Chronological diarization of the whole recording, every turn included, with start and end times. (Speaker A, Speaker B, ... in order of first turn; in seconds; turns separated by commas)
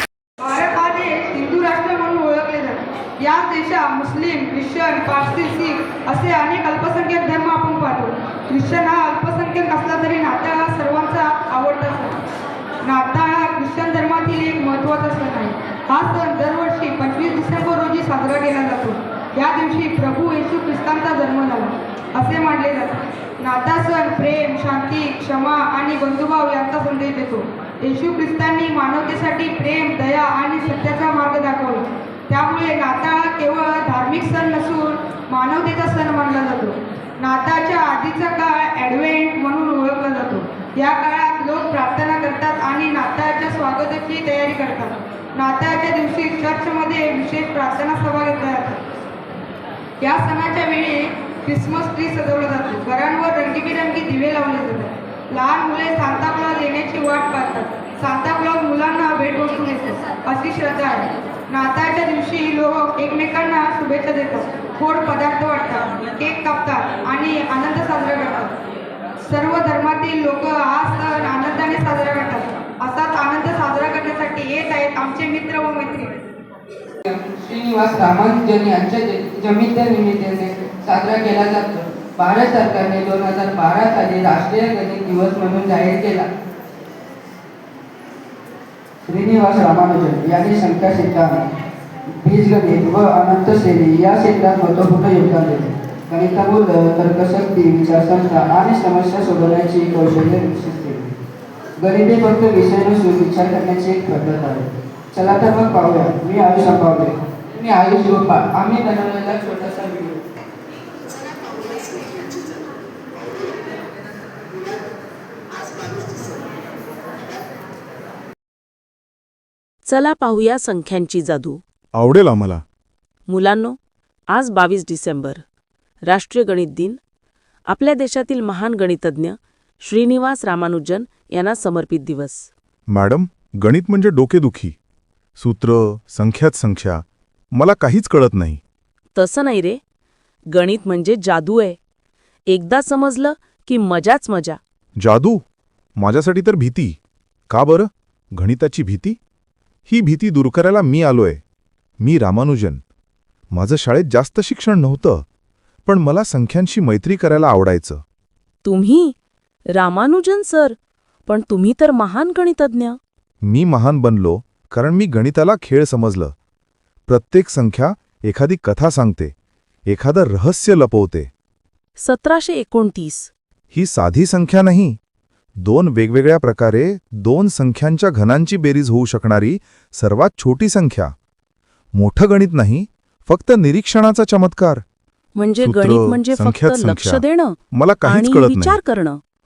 Speaker A: 0.4-12.2, Speaker A: 12.8-48.8, Speaker A: 50.0-68.5, Speaker A: 69.3-76.2, Speaker B: 77.1-86.3, Speaker B: 89.0-91.4, Speaker B: 92.2-101.1, Speaker B: 101.8-110.2, Speaker C: 119.8-121.6, Speaker D: 122.0-122.6, Speaker C: 123.3-123.8, Speaker C: 124.3-125.4, Speaker C: 126.0-127.0, Speaker C: 127.7-132.5, Speaker D: 132.9-134.8, Speaker D: 135.4-137.0, Speaker D: 137.5-138.6, Speaker C: 139.1-139.8, Speaker C: 140.5-141.8, Speaker C: 142.5-144.6, Speaker D: 145.0-145.4, Speaker D: 146.0-147.0, Speaker D: 147.5-149.2, Speaker D: 149.9-151.4, Speaker D: 152.0-152.8, Speaker D: 153.5-155.2, Speaker D: 155.8-158.0, Speaker C: 158.6-159.1, Speaker C: 159.7-163.0, Speaker D: 163.4-166.3, Speaker D: 167.1-169.3, Speaker D: 169.9-171.3, Speaker C: 172.0-173.3, Speaker D: 173.7-175.0, Speaker D: 175.6-181.1, Speaker D: 181.9-184.8, Speaker C: 185.3-189.2, Speaker D: 185.6-188.8